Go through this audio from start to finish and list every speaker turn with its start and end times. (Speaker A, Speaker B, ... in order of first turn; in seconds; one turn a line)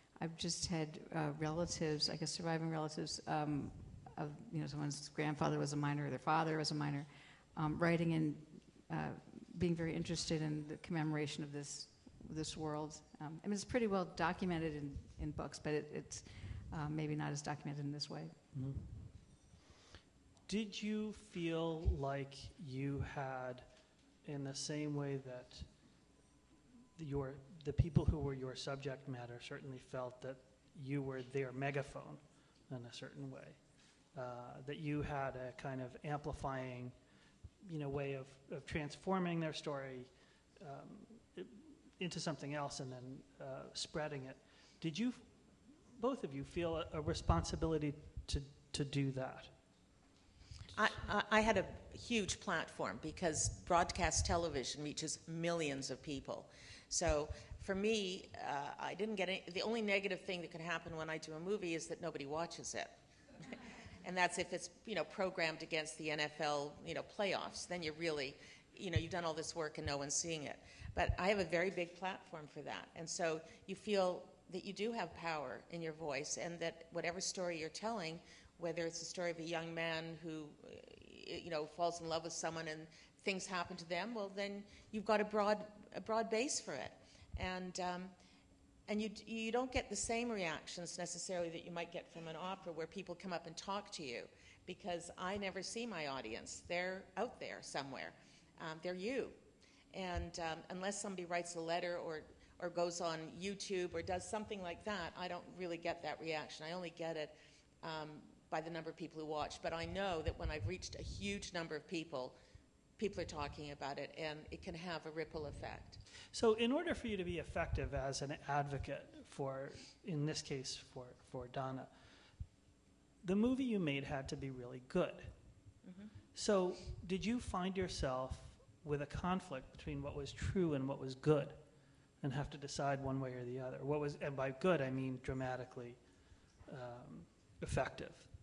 Speaker A: 0.1-18.3
Speaker B: 18.5-19.1
Speaker B: 20.5-23.6
Speaker B: 24.2-25.7
Speaker B: 27.0-33.6
Speaker B: 34.1-36.9
Speaker B: 37.6-40.1
Speaker B: 40.6-45.2
Speaker B: 46.0-49.5
Speaker C: 50.7-62.9
Speaker C: 64.0-88.1
Speaker C: 88.9-99.4
Speaker C: 99.9-112.3
Speaker C: 113.0-116.0
Speaker B: 116.3-121.9
Speaker B: 123.2-125.3
Speaker C: 125.8-126.1
Speaker B: 126.3-131.6
Speaker B: 132.2-136.0
Speaker B: 136.7-138.3